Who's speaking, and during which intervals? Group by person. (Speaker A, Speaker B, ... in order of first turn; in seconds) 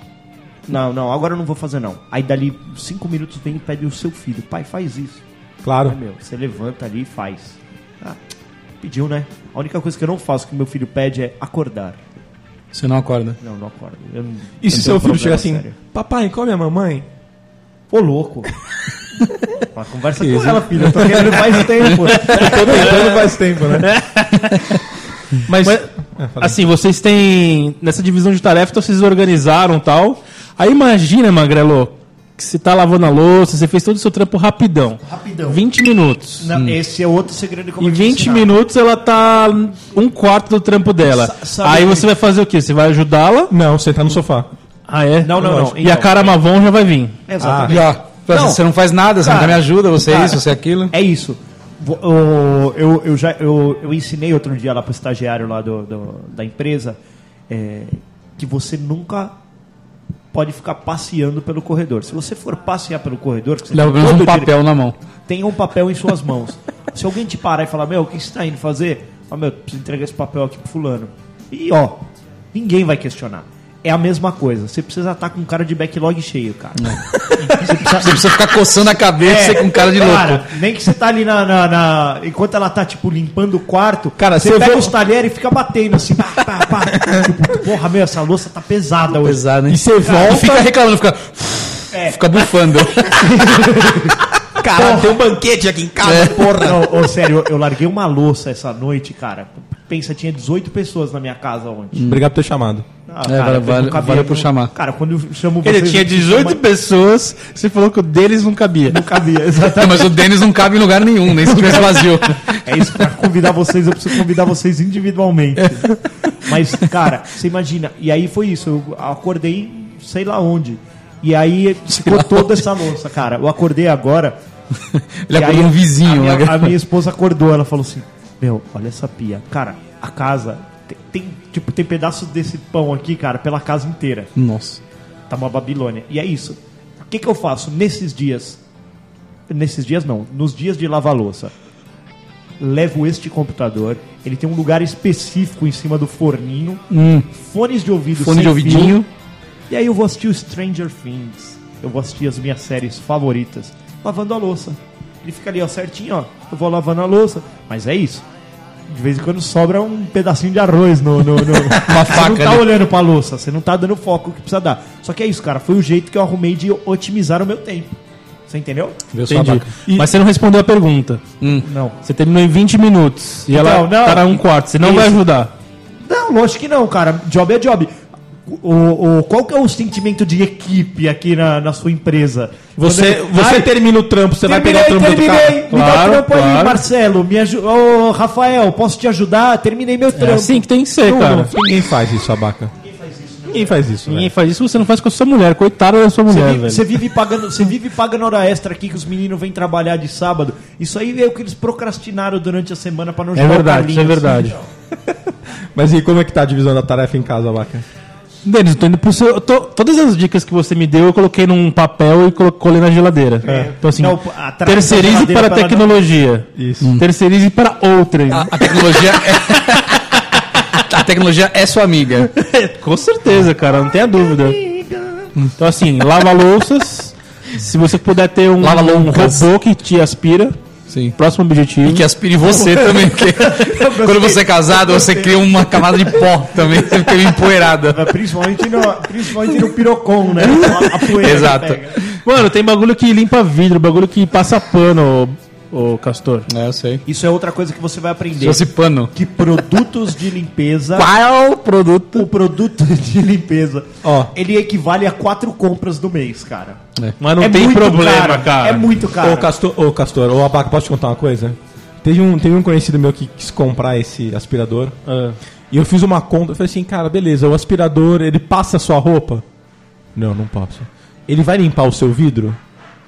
Speaker A: 0.7-5.2, 5.8-8.2, 8.8-12.0, 13.4-15.8, 17.9-18.5, 19.7-22.9, 35.0-35.6, 36.4-38.5, 41.1-42.1, 45.2-46.3, 47.3-48.6, 49.2-57.0, 57.5-59.4, 60.3-64.5, 65.3-78.4, 78.9-89.5, 90.0-90.4, 91.9-92.2, 93.0-95.3, 96.6-102.0, 103.1-106.6, 108.9-110.2, 111.5-112.0, 112.6-124.4, 125.3-134.3, 135.3-138.6, 139.5-141.5, 142.6-149.0, 149.7-158.2, 158.9-168.0, 168.5-169.0, 171.6-171.9, 173.5-175.2, 176.1-177.9, 178.5-183.7, 184.4-190.7, 192.8-193.8, 196.3-204.7, 213.4-216.0, 224.6-225.3, 232.5-237.1, 237.8-242.0, 247.1-251.1, 252.1-256.8, 257.4-259.5
Speaker B: 5.6-6.0, 14.6-17.1, 22.2-23.9, 25.4-26.6, 43.5-44.5, 45.4-45.8, 47.4-47.8, 84.2-84.9, 86.9-87.3, 89.7-90.7, 94.6-96.9, 102.1-102.9, 182.8-185.7, 191.0-192.7, 193.5-194.3, 205.8-207.8, 216.6-216.9, 254.0-254.3, 259.2-265.0, 265.7-269.4, 270.1-272.6
Speaker C: 12.7-13.4, 47.7-50.9, 63.7-65.0, 77.6-80.5, 89.2-93.6, 96.0-96.5, 102.0-102.2, 103.2-104.7, 109.7-112.6, 122.0-122.5, 124.9-126.8, 134.4-134.8, 146.9-147.2, 148.2-149.0, 161.5-162.7, 169.1-169.7, 171.4-171.7, 218.3-220.2, 220.7-222.3, 228.6-229.5, 230.9-231.2, 231.8-238.1, 240.4-241.8, 246.5-247.0, 248.4-249.1, 251.0-252.3
Speaker D: 22.4-24.8, 25.6-36.5, 37.8-43.5, 44.9-47.2, 105.6-109.0, 148.4-149.1, 169.3-171.2, 172.0-175.5, 185.7-186.8, 190.1-191.5, 194.1-196.9, 203.4-204.6, 208.4-219.2, 222.3-224.6, 225.6-230.6, 231.2-232.1, 242.2-246.5, 257.2-258.9, 265.1-265.4